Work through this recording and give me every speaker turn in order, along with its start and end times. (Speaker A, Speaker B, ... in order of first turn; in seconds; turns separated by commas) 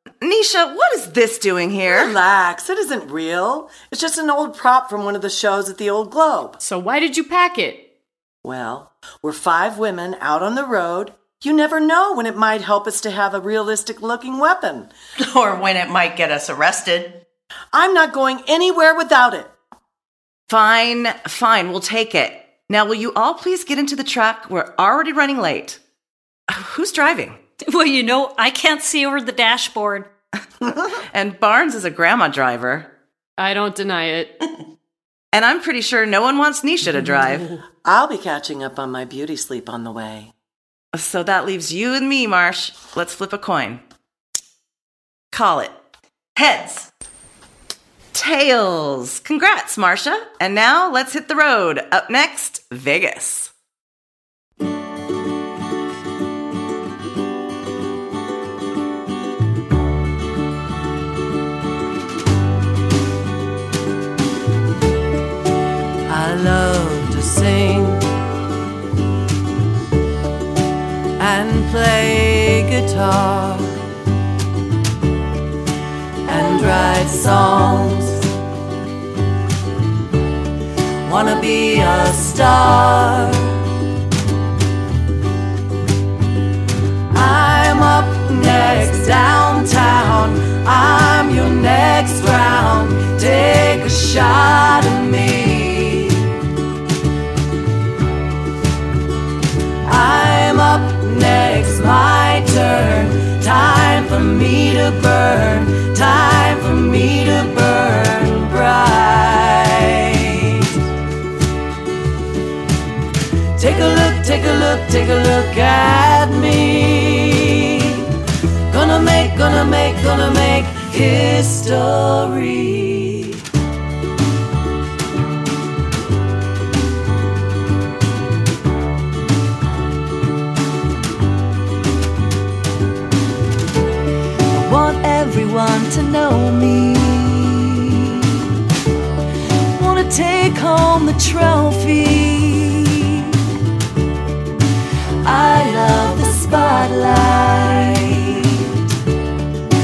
Speaker A: 0.2-2.1, Speaker B: 1.9-6.6, Speaker C: 6.6-7.8, Speaker B: 8.4-14.9, Speaker D: 15.2-17.2, Speaker B: 17.7-19.5, Speaker A: 20.5-25.8, Speaker A: 26.5-27.4, Speaker E: 27.6-30.1, Speaker A: 31.1-32.9, Speaker C: 33.4-34.3, Speaker A: 35.3-37.5, Speaker B: 37.9-40.3, Speaker A: 40.9-43.8, Speaker A: 45.3-45.7, Speaker D: 46.4-46.9, Speaker A: 48.1-53.5, Speaker F: 66.1-68.0, Speaker F: 71.2-73.8, Speaker F: 76.3-78.3, Speaker F: 81.1-83.6, Speaker F: 87.1-96.3, Speaker F: 99.8-110.7, Speaker F: 113.6-118.0, Speaker F: 118.7-123.4, Speaker F: 134.5-138.2, Speaker F: 139.8-143.2, Speaker F: 145.2-148.7